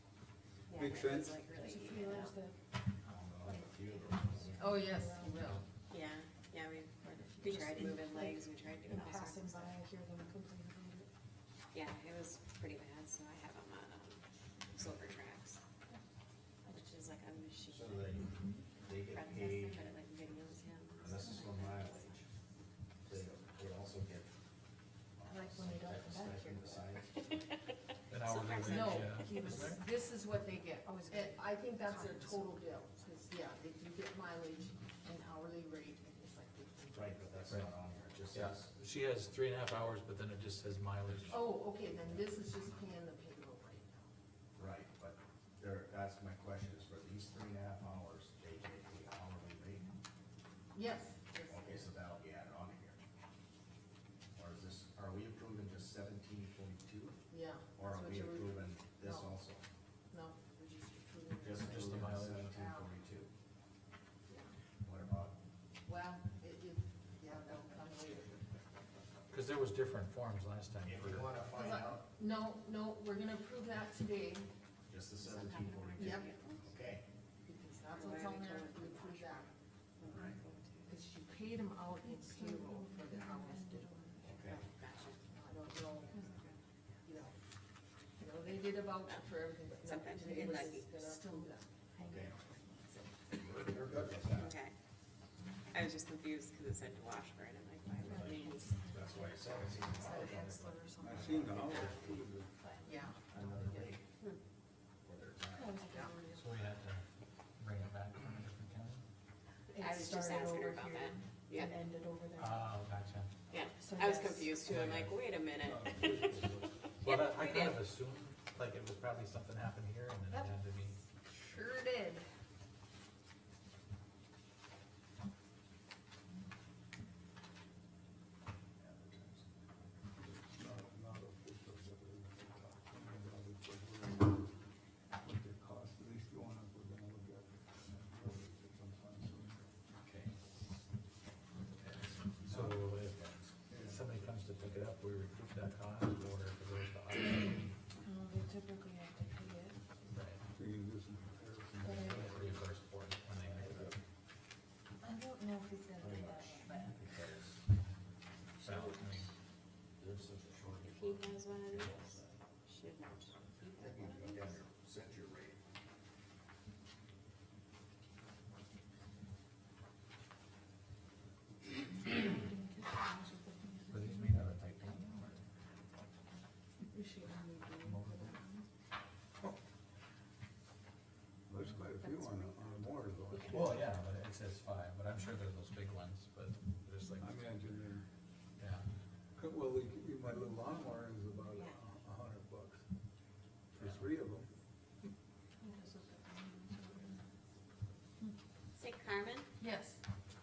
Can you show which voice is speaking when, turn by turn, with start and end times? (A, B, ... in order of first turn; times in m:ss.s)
0:00.7-0:02.4 A
0:00.7-0:01.4 B
0:01.5-0:02.6 C
0:03.0-0:04.9 D
0:03.5-0:05.6 C
0:04.6-0:05.6 E
0:05.9-0:09.8 A
0:07.0-0:11.1 C
0:11.7-0:15.6 A
0:16.7-0:18.2 A
0:17.7-0:19.9 D
0:19.1-0:22.2 A
0:21.0-0:22.1 D
0:21.0-0:22.2 C
0:23.1-0:24.3 D
0:25.2-0:27.1 D
0:25.2-0:27.0 C
0:27.2-0:29.7 A
0:28.1-0:29.8 F
0:28.6-0:37.4 E
0:29.5-0:29.8 C
0:30.8-0:32.6 C
0:36.9-0:38.7 D
0:38.3-0:41.5 F
0:41.3-0:44.1 E
0:44.6-0:49.9 D
0:50.7-0:51.9 E
0:51.5-0:53.0 D
0:54.4-0:57.2 D
0:57.3-0:59.4 E
0:57.8-0:59.6 D
1:00.1-1:02.9 E
1:01.4-1:03.3 D
1:01.6-1:02.5 F
1:04.3-1:04.5 E
1:04.8-1:05.4 D
1:05.9-1:08.4 E
1:09.3-1:11.3 F
1:10.8-1:12.1 D
1:11.5-1:14.5 E
1:14.9-1:17.0 D
1:15.2-1:16.6 A
1:16.0-1:16.3 E
1:17.4-1:19.5 E
1:17.9-1:20.9 A
1:20.1-1:20.4 D
1:20.9-1:24.7 E
1:22.0-1:24.4 C
1:24.3-1:24.6 D
1:24.6-1:25.2 A
1:25.2-1:26.2 E
1:26.1-1:26.6 A
1:27.0-1:27.4 E
1:28.2-1:32.2 E
1:29.8-1:31.5 A
1:30.2-1:30.8 C
1:32.0-1:33.4 C
1:32.0-1:32.4 D
1:33.4-1:34.5 D
1:34.3-1:34.7 A
1:35.7-1:38.8 A
1:38.1-1:41.6 C
1:38.1-1:42.2 D
1:41.0-1:42.5 B
1:41.5-1:42.1 A
1:42.6-1:42.9 A
1:42.8-1:44.0 E
1:43.3-1:44.0 D
1:45.0-1:45.9 D
1:45.5-1:46.5 C
1:45.8-1:46.5 E
1:46.4-1:47.0 F
1:47.6-1:49.0 F
1:49.7-1:52.8 C
1:49.8-1:51.8 A
1:52.4-1:53.3 F
1:53.5-1:57.8 A
1:53.8-1:54.6 C
1:54.6-1:55.2 F
1:55.6-1:56.8 B
1:57.0-2:01.0 F
2:00.3-2:00.6 E
2:01.3-2:02.2 E
2:08.8-2:09.9 D
2:10.2-2:14.5 B
2:15.2-2:19.6 B
2:20.1-2:20.3 F
2:21.8-2:22.4 D
2:22.4-2:27.7 F
2:22.5-2:22.8 B
2:23.7-2:24.1 B
2:28.0-2:29.8 C
2:28.3-2:29.0 E
2:30.1-2:30.4 F
2:30.5-2:32.6 B
2:31.8-2:32.3 C
2:32.1-2:33.9 F
2:33.4-2:34.0 D
2:35.0-2:37.0 E
2:36.0-2:37.6 D
2:38.6-2:39.3 F
2:40.0-2:42.4 D
2:40.8-2:44.6 A
2:43.8-2:45.6 D
2:51.9-2:54.5 C
2:53.9-2:55.4 F
2:56.9-2:58.7 C
2:57.8-2:58.3 F
3:01.5-3:04.0 B
3:02.0-3:03.9 A
3:03.5-3:07.6 F
3:07.2-3:08.0 B
3:08.6-3:08.8 F
3:09.4-3:12.8 B
3:11.5-3:11.8 A
3:13.7-3:14.5 B
3:13.8-3:14.1 F
3:15.6-3:17.2 C
3:18.8-3:19.5 A
3:19.6-3:20.0 E